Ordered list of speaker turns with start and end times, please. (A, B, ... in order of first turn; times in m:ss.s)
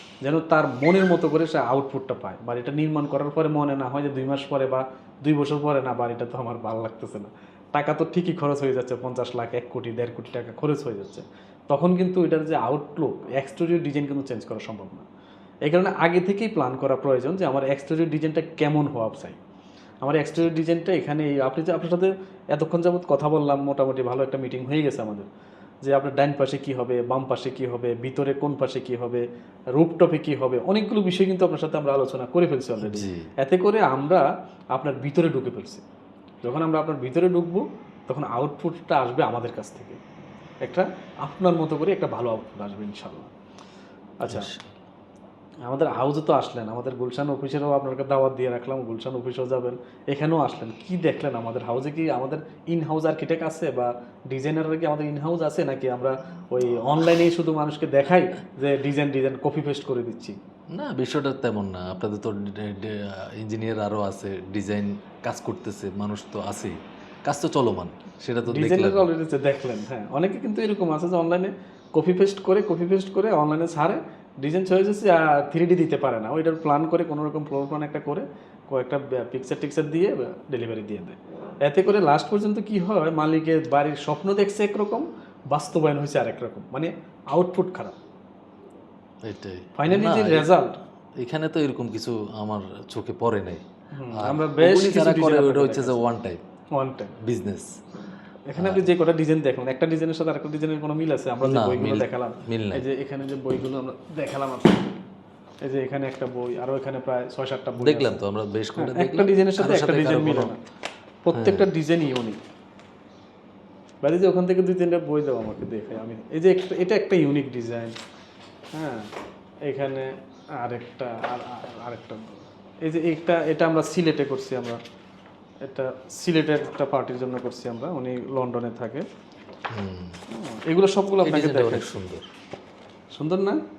0:00.2-0:15.1 A
0:15.7-0:19.4 A
0:20.0-0:25.3 A
0:25.8-0:29.2 A
0:29.8-0:35.8 A
0:32.8-0:33.3 B
0:36.4-0:40.0 A
0:40.6-0:43.3 A
0:44.2-0:44.5 A
0:44.3-0:44.6 B
0:45.7-1:00.4 A
1:00.7-1:09.1 B
1:08.5-1:28.0 A
1:29.2-1:30.5 B
1:29.8-1:30.8 A
1:31.2-1:33.6 B
1:33.9-1:36.0 A
1:34.2-1:36.4 B
1:36.8-1:37.2 A
1:37.2-1:37.8 B
1:38.5-1:45.0 A
1:38.6-1:38.9 B
1:41.4-1:42.9 B
1:45.6-1:48.2 A
1:47.8-1:50.5 B
1:48.8-1:50.6 A
1:51.2-1:52.4 A
1:51.3-1:51.7 B
1:54.0-1:58.0 A
1:58.7-1:59.1 A
1:59.7-2:04.8 A
2:05.6-2:09.0 A
2:09.7-2:10.2 B
2:10.3-2:11.9 A
2:11.2-2:12.3 B
2:13.1-2:13.6 A